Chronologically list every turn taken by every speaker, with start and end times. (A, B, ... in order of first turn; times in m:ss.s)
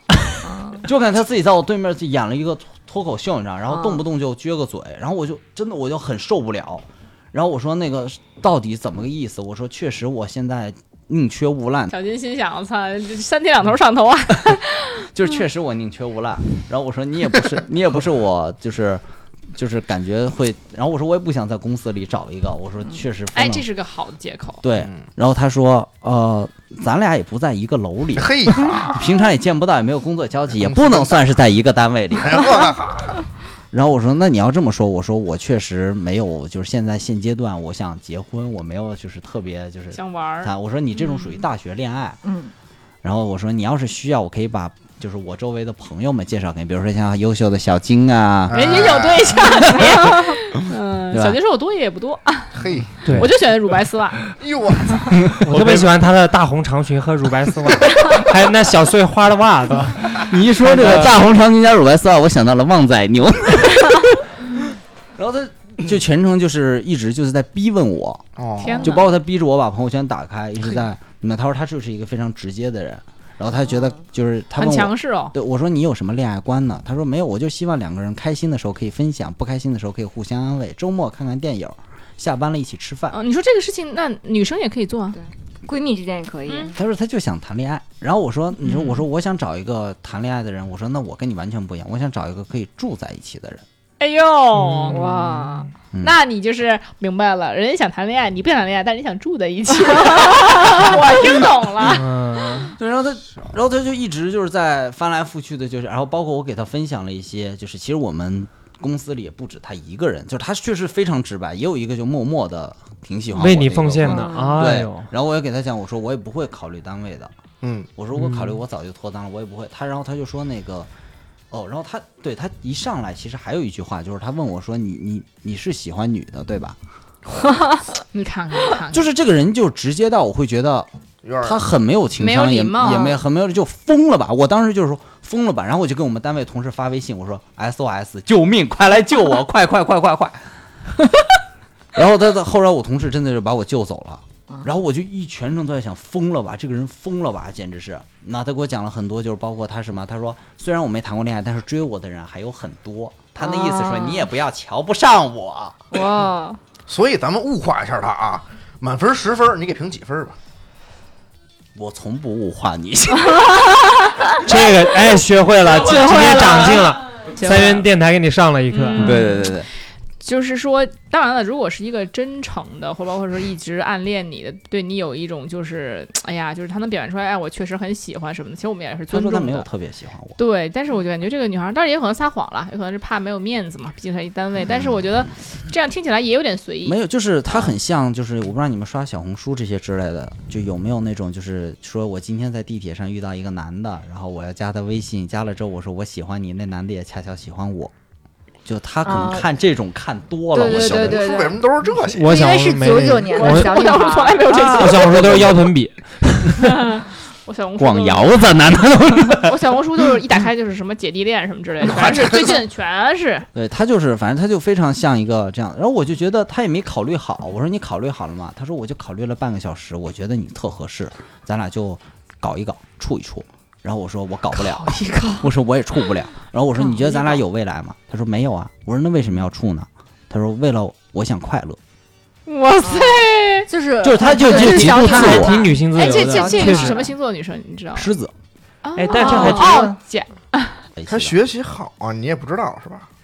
0:00.4-0:00.8 A
0:00.8-0:11.9 B
0:11.9-0:15.0 C
0:15.1-0:23.7 B
0:23.3-0:24.6 C
0:24.6-0:32.7 B
0:28.2-0:29.0 D
0:30.6-0:31.2 D
0:32.2-0:33.2 D
0:33.7-0:42.2 B
0:39.9-0:40.5 C
0:42.2-0:42.5 A
0:43.0-0:49.1 B
0:48.5-0:49.4 D
0:48.5-0:54.3 C
0:49.6-0:51.4 B
0:52.6-0:53.0 D
0:53.0-0:53.3 E
0:54.4-0:55.8 D
0:55.3-1:01.2 E
1:00.2-1:04.5 B
1:05.2-1:08.3 B
1:08.4-1:08.8 D
1:08.6-1:09.0 C
1:08.8-1:23.2 B
1:14.6-1:15.3 C
1:23.1-1:25.2 C
1:25.1-1:26.8 A
1:26.5-1:26.7 C
1:26.8-1:33.6 B
1:34.0-1:35.0 C
1:34.6-1:35.7 E
1:34.9-1:35.7 A
1:36.0-1:42.1 C
1:41.8-1:42.7 E
1:42.7-1:57.3 B
1:53.4-1:55.1 E
1:54.0-1:54.6 A
1:57.6-1:57.9 D
1:58.0-2:00.9 B
1:58.2-1:58.6 E
2:01.5-2:06.8 B
2:07.4-2:07.8 A
2:08.1-2:09.1 C
2:08.9-2:10.9 B
2:11.2-2:11.6 D
2:11.4-2:21.3 B
2:12.2-2:13.1 C
2:12.8-2:13.2 A
2:22.0-2:35.8 B
2:33.4-2:34.3 A
2:35.9-2:36.6 A
2:36.9-2:40.4 D
2:41.8-2:43.7 B
2:43.3-2:43.7 A
2:44.4-2:49.2 E
2:45.9-2:46.6 A
2:45.9-2:47.9 C
2:48.7-2:49.5 C
2:49.0-2:49.7 B
2:50.2-2:59.7 C
2:59.1-3:00.4 B
3:00.4-3:07.0 C
3:06.8-3:17.9 B
3:18.6-3:21.3 B
3:19.0-3:19.5 A
3:20.5-3:21.6 A
3:20.6-3:22.4 D
3:22.1-3:26.8 E
3:22.3-3:25.0 A
3:23.3-3:25.4 C
3:25.2-3:25.6 B
3:26.6-3:28.6 C
3:27.8-3:29.6 B
3:29.3-3:33.5 C
3:32.0-3:32.4 D
3:33.5-3:51.8 B
3:44.6-3:45.5 C
3:46.8-3:47.3 A
3:52.5-3:53.7 C
3:52.8-3:57.1 A
3:54.0-3:55.6 B
3:54.7-3:57.0 E
3:55.9-3:58.1 C
3:58.0-3:58.3 B
3:58.8-4:00.8 C
3:59.0-3:59.9 E
3:59.1-3:59.9 A
4:01.0-4:01.4 B
4:01.1-4:03.1 D